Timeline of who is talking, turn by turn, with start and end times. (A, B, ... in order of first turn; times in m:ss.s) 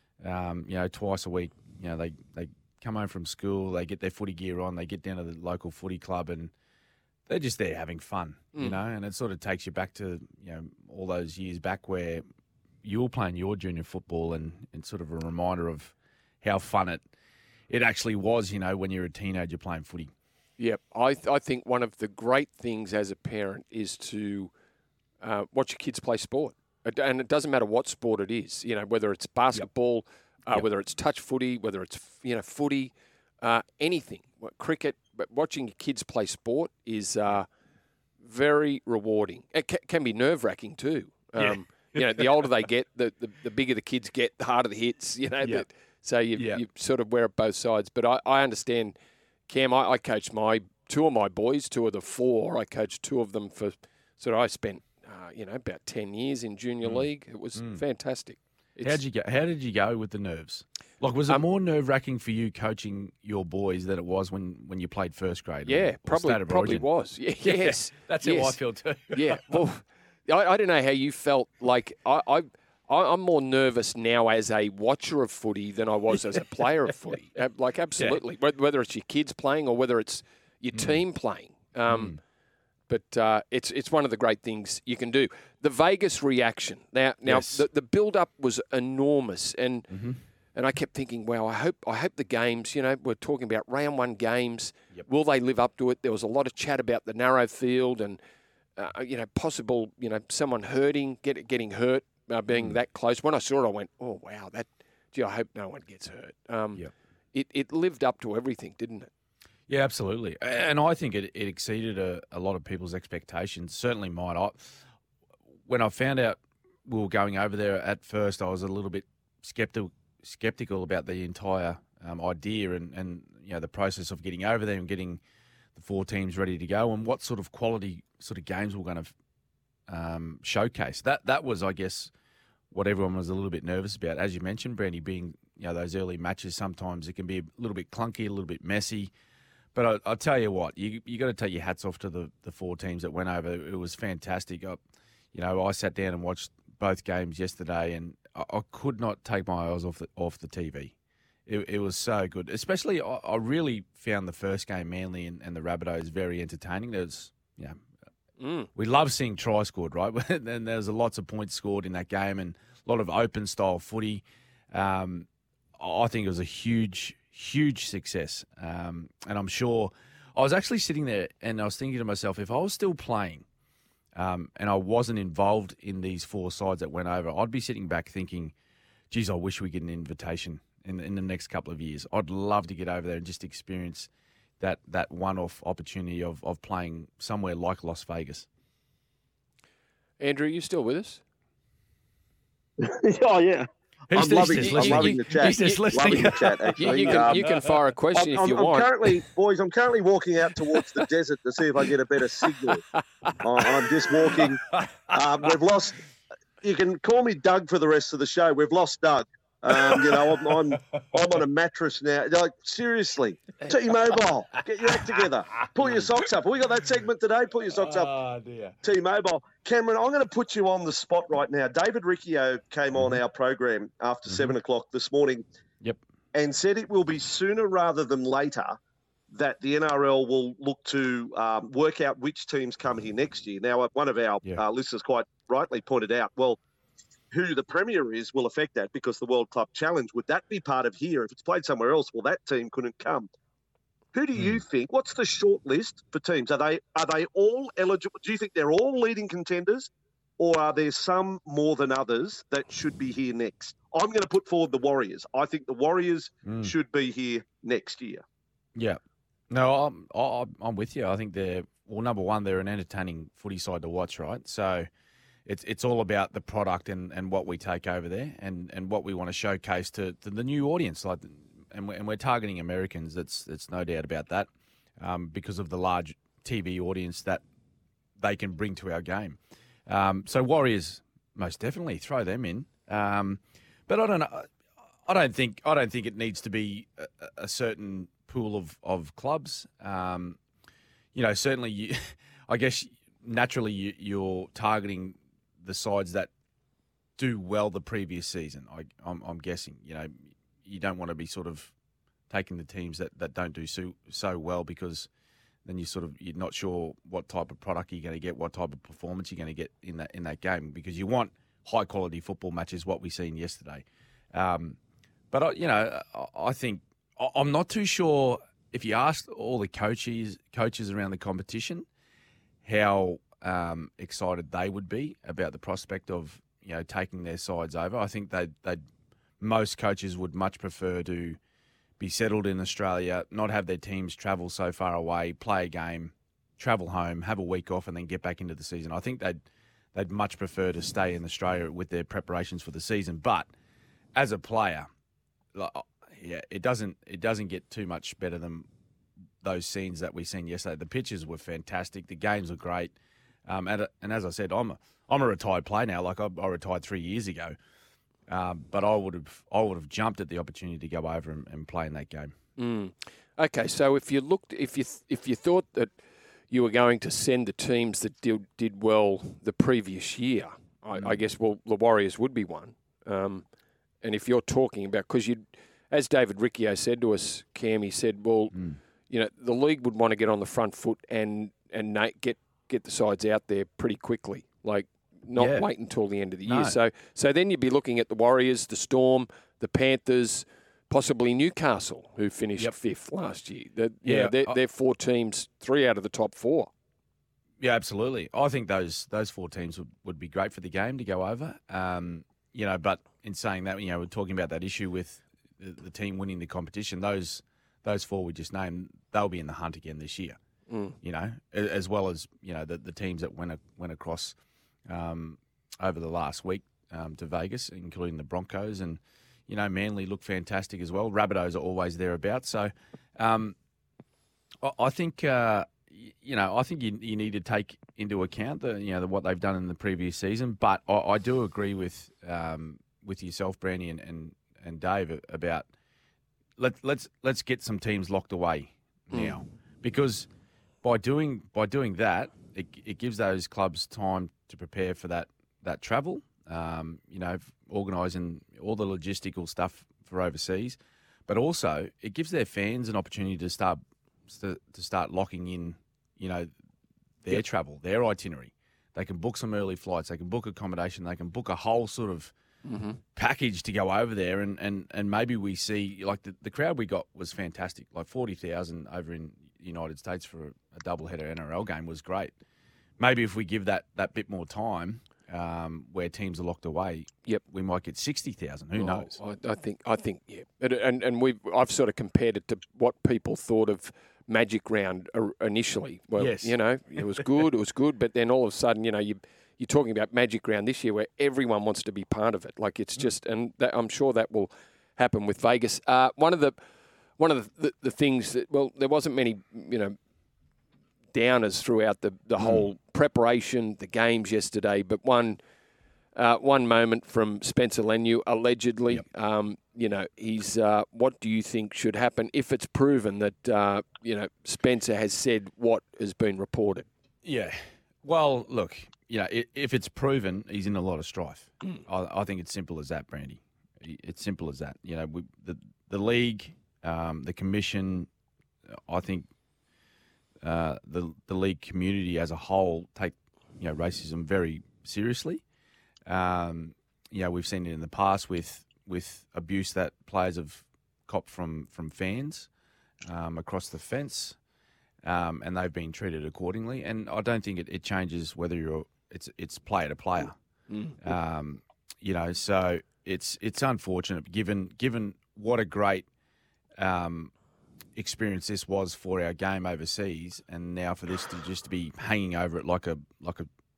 0:00.2-0:06.5 A
0:07.3-0:12.2 A
0:12.8-0:17.0 A
0:17.7-0:20.1 A
0:20.6-0:24.5 B
0:25.2-0:37.5 B
0:38.2-0:48.9 B
0:41.4-0:42.2 A
0:46.3-0:46.6 A
0:49.5-0:59.0 B
0:56.8-0:57.8 A
0:58.8-1:06.8 A
1:05.6-1:08.6 B
1:07.4-1:09.6 A
1:09.1-1:22.2 B
1:20.7-1:21.0 A
1:21.9-1:22.2 A
1:22.9-1:29.9 B
1:27.2-1:27.6 A
1:29.9-1:30.2 A
1:30.5-1:38.2 B
1:38.8-1:49.1 B
1:49.7-1:54.8 A
1:55.7-2:05.2 A
2:05.7-2:09.1 A
2:09.9-2:12.1 A
2:12.7-2:19.1 A
2:19.7-2:24.8 A
2:25.3-2:30.9 A
2:31.4-2:37.8 A
2:38.4-2:38.7 B
2:38.7-2:53.4 A
2:54.1-2:58.5 A
2:59.1-3:08.5 A
3:10.2-3:11.2 B
3:12.8-3:17.5 C
3:14.1-3:17.8 A
3:14.6-3:18.9 B
3:18.1-3:22.8 C
3:20.5-3:21.0 A
3:22.9-3:23.4 B
3:23.4-3:26.0 C
3:23.6-3:25.5 A
3:26.6-3:38.1 C
3:29.7-3:31.2 A
3:33.7-3:34.2 A
3:34.8-3:36.3 A
3:37.7-3:38.8 A
3:38.8-3:45.4 C
3:44.3-3:44.5 A
3:46.3-3:48.8 C
3:49.3-3:56.6 C
3:57.3-4:03.3 C
4:04.1-4:18.2 C
4:04.3-4:04.6 A
4:16.4-4:16.7 A
4:18.7-4:24.9 A
4:25.4-4:37.4 A
4:38.2-4:44.5 A
4:45.0-4:50.4 A
4:51.1-4:56.3 A
4:57.2-5:01.7 A
5:02.3-5:05.1 A
5:05.6-5:14.8 A
5:15.3-5:21.9 A
5:22.6-5:28.8 A
5:29.4-5:31.4 A
5:32.0-5:39.4 A
5:39.9-5:43.5 A
5:44.1-5:44.9 A
5:45.5-5:48.7 A
5:49.4-5:52.9 A
5:53.4-5:57.6 A
5:58.3-6:02.3 A
6:02.6-6:13.4 B
6:10.9-6:11.2 A
6:14.0-6:36.7 B
6:25.4-6:25.7 A
6:26.4-6:26.8 A
6:34.0-6:34.6 A
6:37.6-6:50.4 A
6:50.7-6:50.9 B
6:51.0-6:54.3 A
6:54.9-7:03.6 A
7:04.6-7:15.7 A
7:16.6-7:20.3 A
7:19.1-7:19.4 B
7:20.8-7:36.5 A
7:37.2-7:42.3 A
7:42.6-7:43.0 B
7:43.1-7:52.3 A
7:53.0-7:59.1 A
7:58.7-8:16.6 B
8:06.2-8:07.2 A
8:17.2-8:20.0 B
8:21.1-8:25.4 B
8:22.4-8:22.6 A
8:26.1-8:36.9 B
8:37.2-8:48.1 A
8:48.7-8:49.3 A
8:50.4-8:55.4 A
8:56.1-9:02.5 A
9:03.0-9:04.4 A
9:05.0-9:10.4 A
9:10.7-9:11.0 B
9:11.0-9:16.0 A
9:16.8-9:17.3 A
9:18.0-9:23.5 A